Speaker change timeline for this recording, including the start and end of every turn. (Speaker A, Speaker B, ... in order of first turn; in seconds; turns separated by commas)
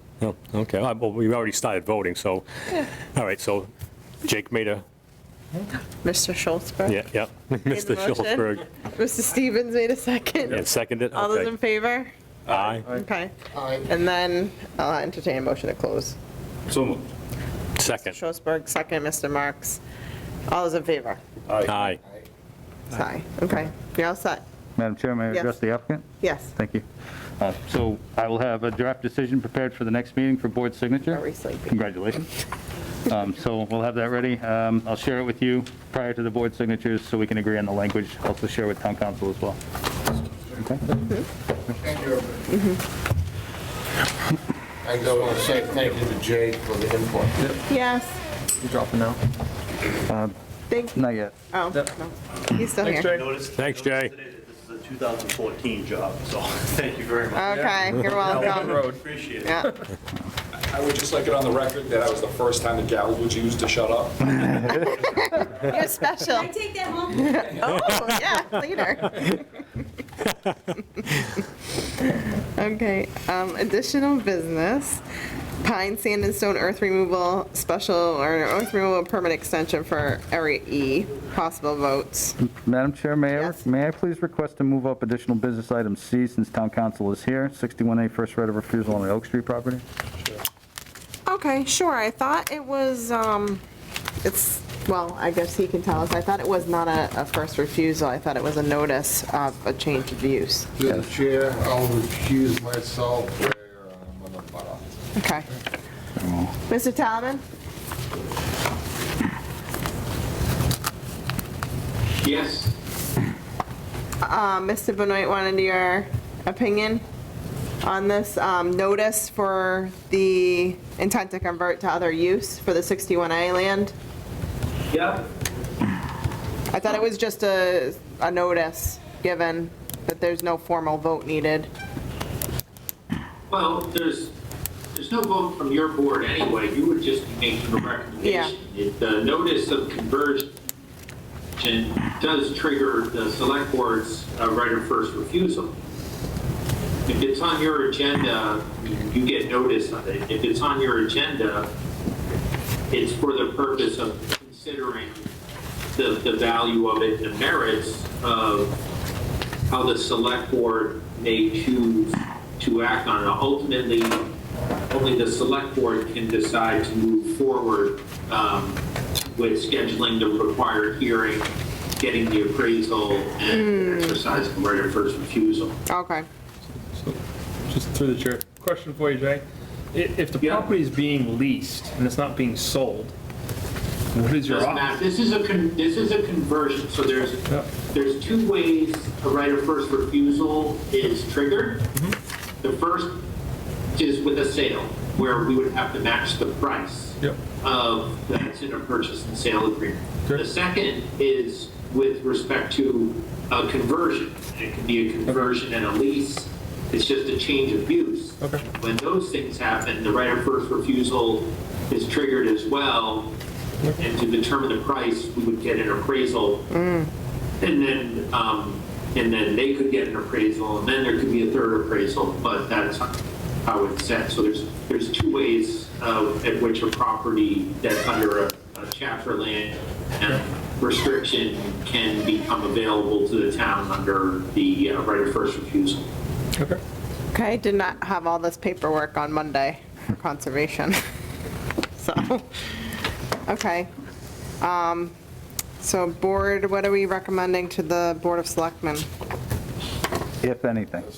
Speaker A: 0.2-3.7, Speaker A: 4.2-4.8, Speaker B: 6.0-7.0, Speaker A: 6.8-8.6, Speaker B: 7.7-12.1, Speaker A: 10.5-11.5, Speaker A: 12.5-12.9, Speaker B: 12.9-13.3, Speaker C: 13.5-13.9, Speaker B: 13.8-16.2, Speaker D: 16.7-17.0, Speaker A: 17.8-18.2, Speaker B: 17.9-19.8, Speaker B: 20.5-21.2, Speaker D: 21.5-21.8, Speaker A: 21.6-22.0, Speaker C: 21.9-22.3, Speaker B: 22.9-24.4, Speaker E: 24.8-26.8, Speaker B: 25.3-25.6, Speaker B: 26.2-26.5, Speaker E: 27.4-32.3, Speaker B: 31.1-31.7, Speaker E: 33.1-39.6, Speaker E: 40.6-40.8, Speaker C: 41.7-42.5, Speaker B: 42.5-42.8, Speaker C: 44.8-47.4, Speaker B: 47.7-48.2, Speaker F: 48.6-49.2, Speaker E: 50.1-50.3, Speaker B: 50.7-51.0, Speaker E: 50.9-51.3, Speaker B: 51.5-53.1, Speaker G: 52.8-59.5, Speaker F: 52.9-53.4, Speaker A: 53.5-54.1, Speaker B: 57.3-58.8, Speaker F: 57.5-59.8, Speaker B: 59.4-59.7, Speaker D: 60.7-64.2, Speaker B: 64.9-69.5, Speaker B: 72.0-75.0, Speaker B: 75.6-82.4, Speaker E: 82.4-89.8, Speaker B: 83.3-83.6, Speaker B: 91.2-93.6, Speaker B: 94.2-100.7, Speaker C: 100.8-105.0, Speaker B: 105.1-105.5, Speaker E: 106.2-106.5, Speaker B: 106.7-107.4, Speaker H: 112.2-112.8, Speaker B: 114.2-117.0, Speaker B: 117.8-123.9, Speaker H: 124.9-125.2, Speaker B: 126.7-131.7, Speaker H: 133.5-134.3, Speaker H: 134.9-140.5, Speaker B: 138.2-138.5, Speaker H: 141.6-145.7, Speaker H: 147.1-151.7, Speaker H: 152.9-155.3, Speaker H: 155.9-158.8, Speaker H: 159.7-164.2, Speaker H: 164.9-175.8, Speaker B: 173.5-174.2, Speaker B: 175.9-176.3, Speaker F: 176.7-183.1, Speaker H: 180.4-180.7, Speaker F: 184.1-185.0, Speaker H: 184.5-191.8, Speaker H: 192.6-193.1, Speaker H: 193.9-213.3, Speaker H: 214.0-216.6, Speaker B: 216.7-217.1, Speaker H: 217.6-223.1, Speaker H: 223.6-236.1, Speaker B: 237.3-241.0, Speaker B: 241.9-242.5, Speaker B: 243.4-243.9, Speaker B: 244.6-245.1, Speaker B: 245.8-249.1, Speaker E: 250.4-251.1